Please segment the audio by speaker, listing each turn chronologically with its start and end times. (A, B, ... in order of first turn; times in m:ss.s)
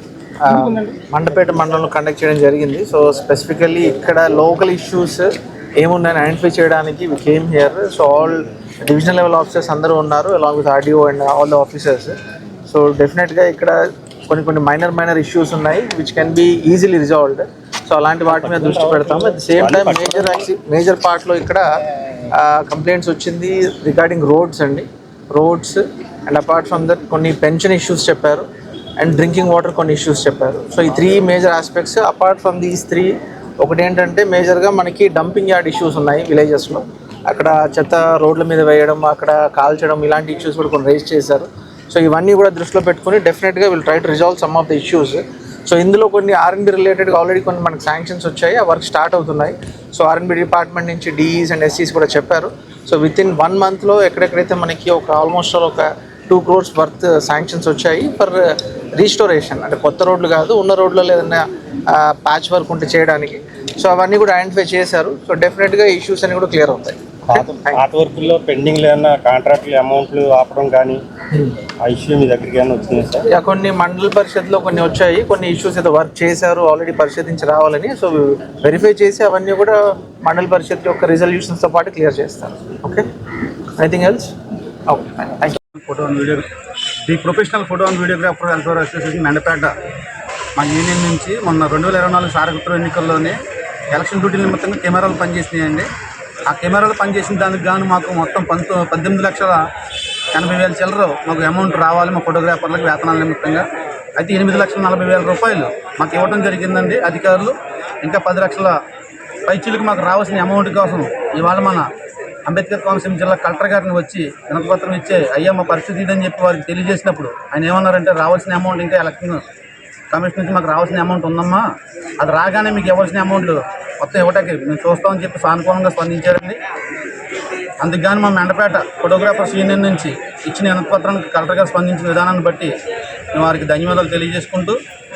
0:00.4-0:21.6 A
0:18.3-0:20.4 B
0:22.3-0:28.4 A
0:29.0-0:58.4 A
0:59.0-1:07.8 A
1:07.3-1:11.0 B
1:11.8-1:13.2 B
1:13.3-1:23.1 A
1:23.8-1:24.3 A
1:24.9-1:25.6 A
1:25.7-1:26.4 C
1:27.1-1:29.7 C
1:30.6-1:33.4 C
1:33.9-1:35.9 C
1:36.5-1:39.6 C
1:40.3-1:43.6 C
1:44.2-1:48.8 C
1:49.5-1:51.9 C
1:52.4-1:59.4 C
2:00.1-2:01.6 C
2:02.2-2:06.6 C
2:07.8-2:12.7 C
2:13.3-2:14.8 C